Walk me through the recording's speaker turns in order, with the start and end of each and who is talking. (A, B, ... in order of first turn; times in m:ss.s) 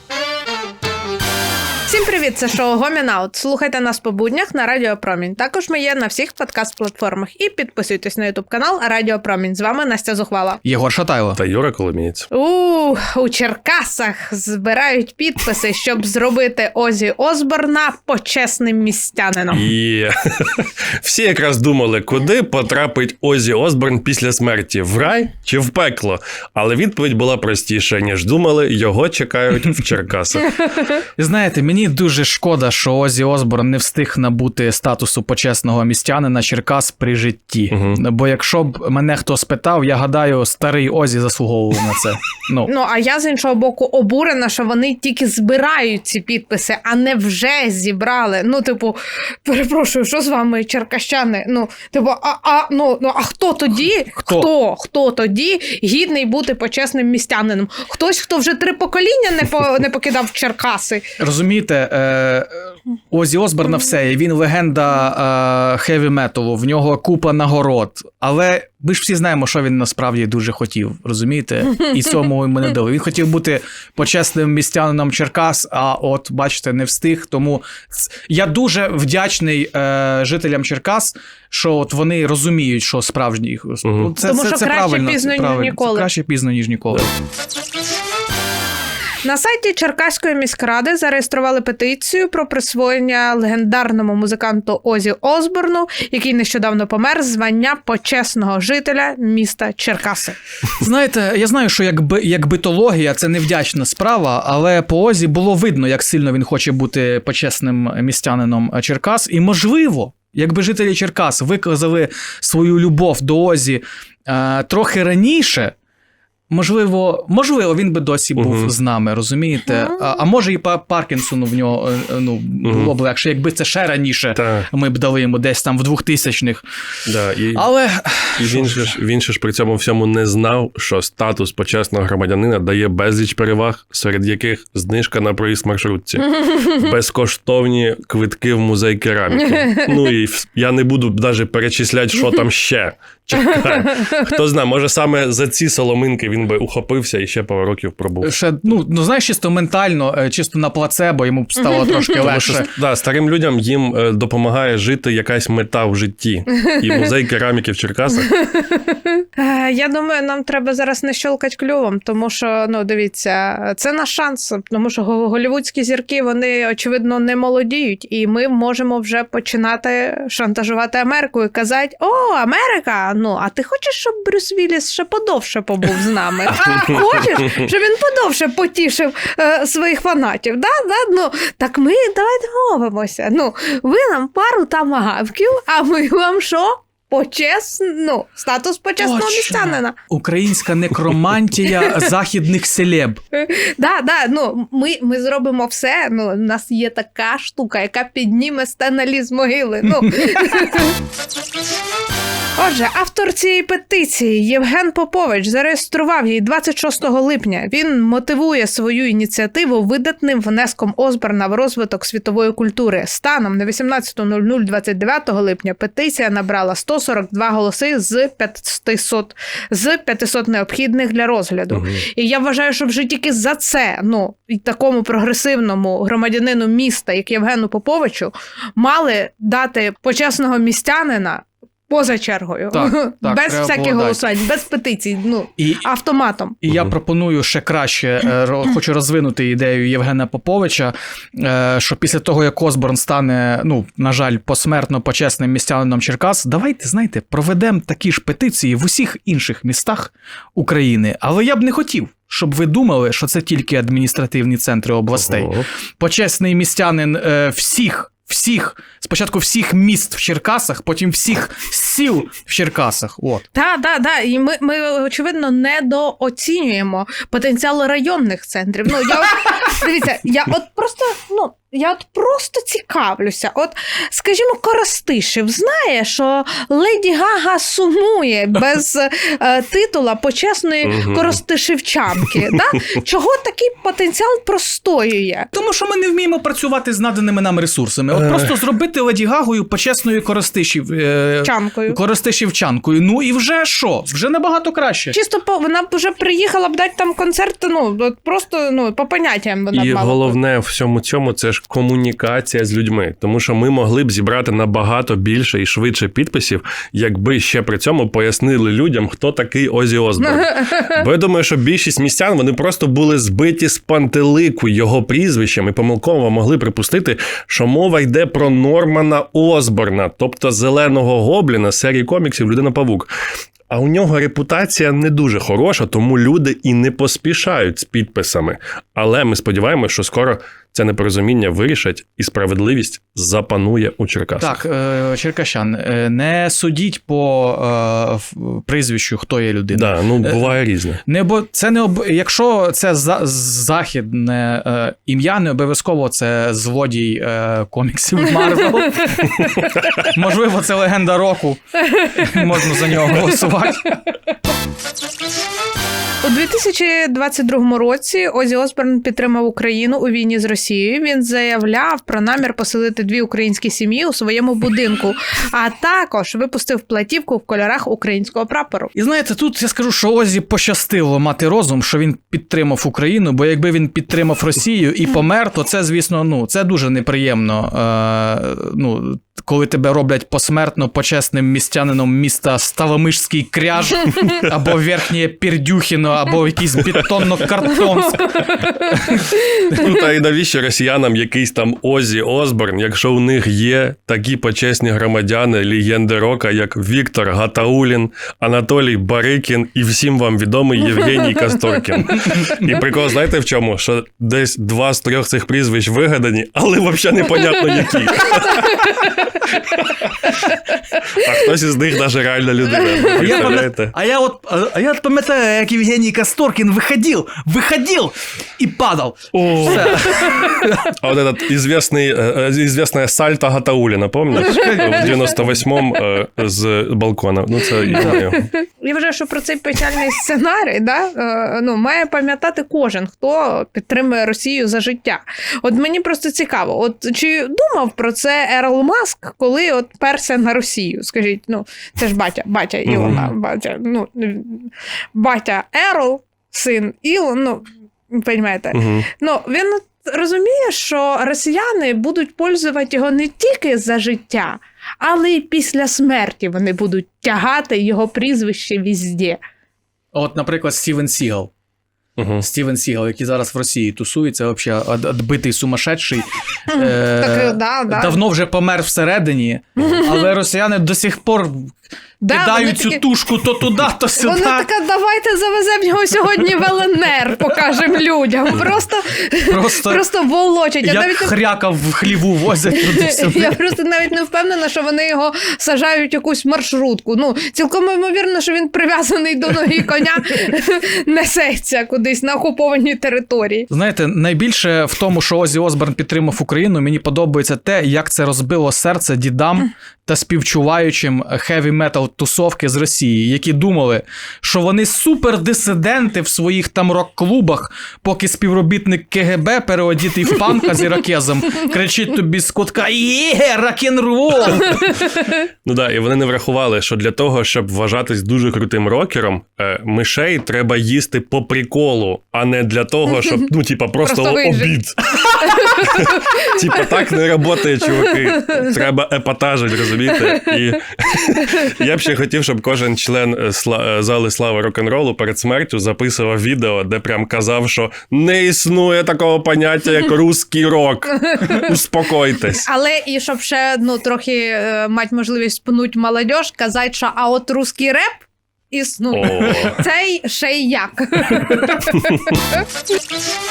0:01.9-0:10.6 A
0:10.6-0:11.4 B
0:11.4-0:12.3 C
0:12.3-0:19.6 A
0:19.5-0:30.6 C
0:31.2-0:42.7 B
0:37.7-0:38.0 C
0:42.6-1:01.1 A
0:54.2-0:54.5 B
1:01.2-1:27.1 B
1:23.8-1:24.1 C
1:24.2-1:26.1 A
1:29.2-1:40.4 A
1:40.8-1:55.7 B
1:56.5-2:06.6 B
1:58.4-1:58.7 C
2:02.6-2:02.9 C
2:04.4-2:04.7 C
2:07.0-2:07.7 C
2:07.5-2:08.9 B
2:08.4-2:28.3 C
2:28.2-2:32.7 B
2:32.1-2:38.3 C
2:38.3-3:10.0 A
3:09.0-3:13.2 B
3:13.3-3:21.0 A
3:22.6-3:56.6 A
3:41.7-3:42.0 C
3:52.7-3:54.2 B
3:56.6-4:23.4 B
4:15.1-4:15.6 C
4:23.5-4:45.5 A
4:40.8-4:41.4 C
4:45.5-4:55.2 B
4:51.4-4:52.0 A
4:55.1-5:00.4 A
4:59.7-5:23.1 C
5:23.7-5:34.6 C
5:34.4-5:40.5 B
5:39.7-5:41.0 C
5:41.0-5:54.0 B
5:56.2-6:08.9 A
6:08.9-6:29.9 B
6:29.7-6:50.5 C
6:51.1-6:53.9 C
6:53.1-7:00.8 B
6:59.3-7:08.5 C
7:04.3-7:05.4 B
7:08.5-7:39.4 A
7:22.9-7:23.2 C
7:28.7-7:29.1 C
7:40.1-7:41.5 B
7:42.2-7:42.4 C
7:42.4-7:51.8 B
7:46.7-7:48.2 A
7:49.9-7:50.3 A
7:52.2-7:53.1 A
7:52.3-7:54.7 B
7:54.2-8:01.4 A
7:59.5-8:00.0 B
8:00.8-8:03.6 B
8:02.7-8:13.7 A
8:13.7-8:34.9 B
8:35.6-9:02.6 C
8:44.0-8:46.8 A
9:01.3-9:01.6 A
9:02.5-9:12.6 A
9:09.1-9:09.8 C